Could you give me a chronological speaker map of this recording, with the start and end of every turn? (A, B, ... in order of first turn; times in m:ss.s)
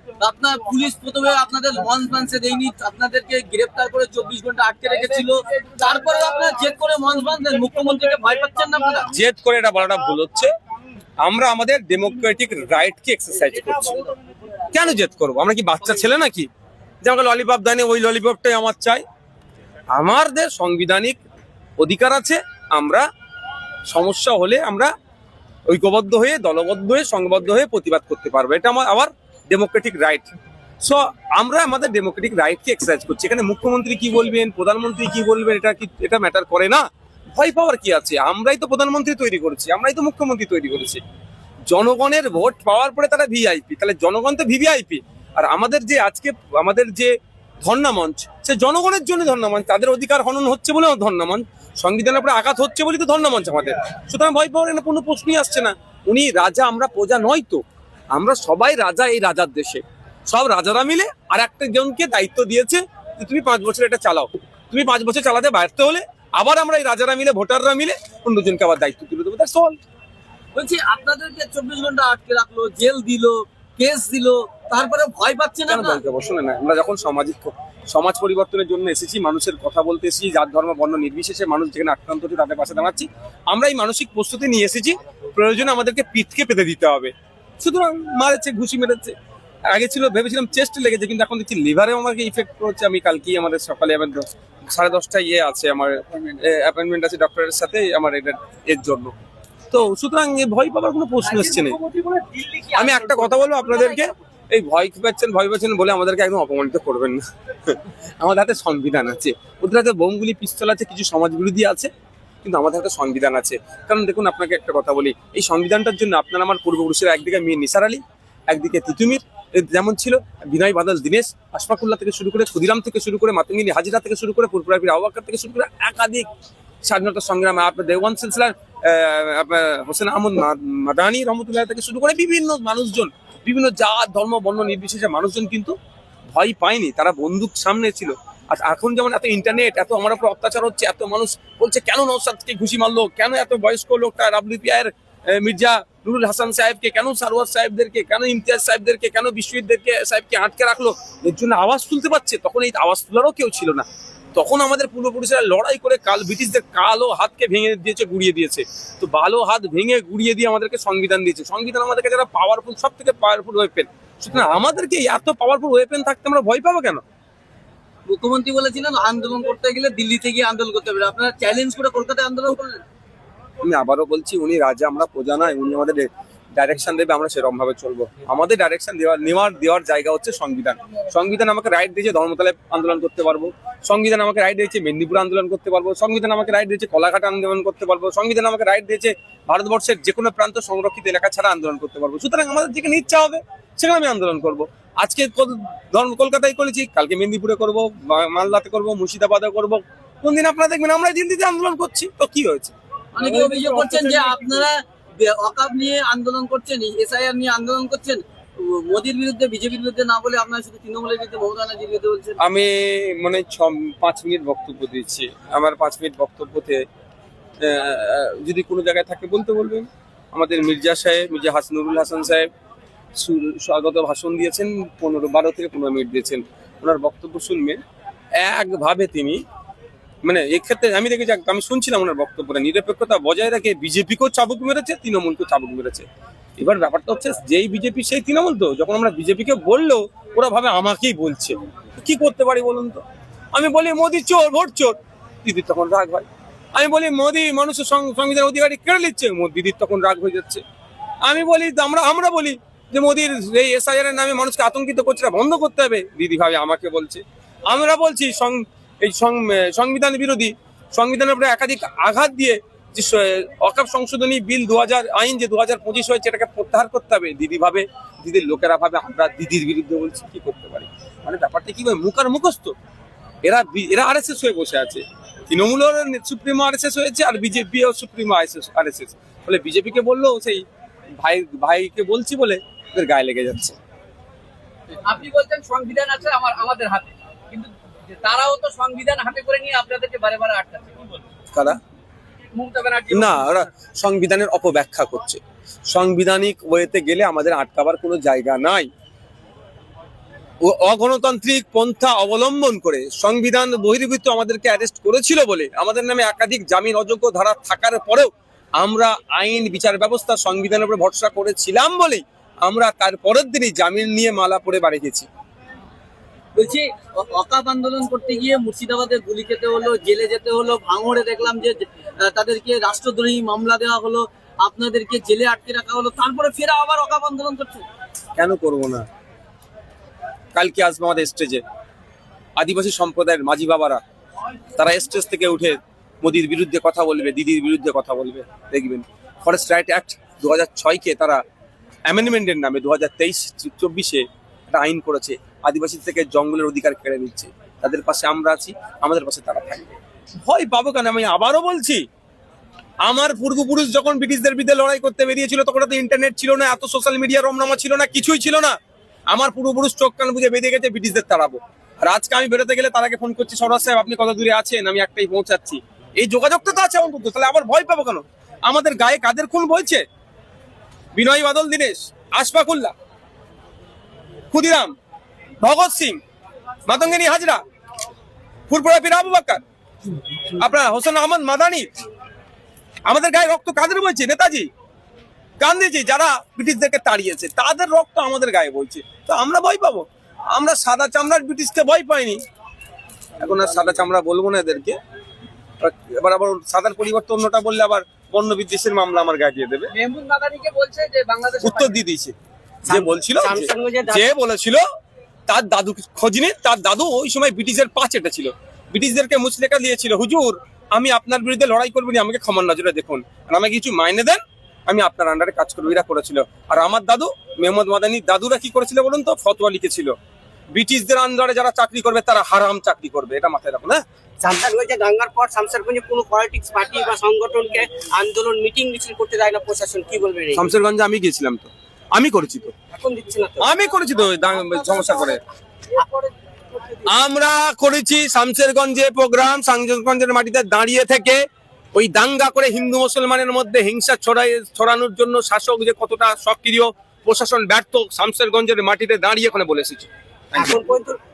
0:00.2-0:09.1 A
0:09.1-0:10.5 B
0:11.2-0:14.1 B
0:14.7-0:16.5 B
0:17.0-0:19.0 B
0:19.9-0:21.2 B
0:21.8-0:23.0 B
0:23.9-0:24.9 B
0:25.7-0:30.3 B
0:30.8-0:41.0 B
0:41.7-0:57.6 B
0:58.1-1:09.8 B
1:10.6-1:16.0 A
1:15.7-1:29.1 B
1:29.7-1:39.1 B
1:39.7-1:41.8 B
1:41.5-1:43.6 C
1:42.7-1:51.9 B
1:52.4-2:06.3 B
2:06.8-2:15.8 B
2:16.3-2:47.0 B
2:48.1-2:52.8 A
2:53.6-3:24.6 B
3:23.2-3:32.4 A
3:32.4-3:36.8 B
3:37.6-3:42.5 B
3:43.2-3:47.8 B
3:48.4-3:49.4 B
3:50.2-3:56.1 B
3:56.6-4:10.6 B
4:11.2-4:32.7 B
4:33.4-4:40.6 B
4:41.2-4:43.8 B
4:45.1-4:51.1 C
4:51.5-4:51.8 B
4:52.6-4:53.5 C
4:53.1-4:58.9 B
5:00.6-5:15.3 B
5:16.6-5:27.8 A
5:28.4-5:29.1 B
5:30.5-5:31.6 B
5:32.6-5:34.0 B
5:34.8-5:41.4 B
5:42.1-5:52.0 B
5:53.0-5:58.8 B
5:59.3-6:10.0 B
6:11.2-6:12.9 B
6:14.5-6:14.9 B
6:15.6-6:16.2 B
6:16.9-6:17.6 B
6:18.7-6:19.6 B
6:20.5-6:21.9 B
6:23.0-6:24.7 B
6:25.6-6:32.4 B
6:33.4-6:35.0 B
6:35.8-6:39.9 B
6:39.9-6:42.0 C
6:41.6-6:42.4 B
6:42.9-6:44.3 D
6:42.9-6:44.8 B
6:45.5-7:00.1 B
7:00.7-7:04.0 B
7:04.4-7:10.7 D
7:10.5-7:12.7 B
7:12.9-7:13.7 D
7:13.6-7:15.4 B
7:14.8-7:15.4 D
7:15.9-7:17.0 D
7:17.1-7:21.4 B
7:21.9-7:30.8 B
7:30.5-7:31.2 D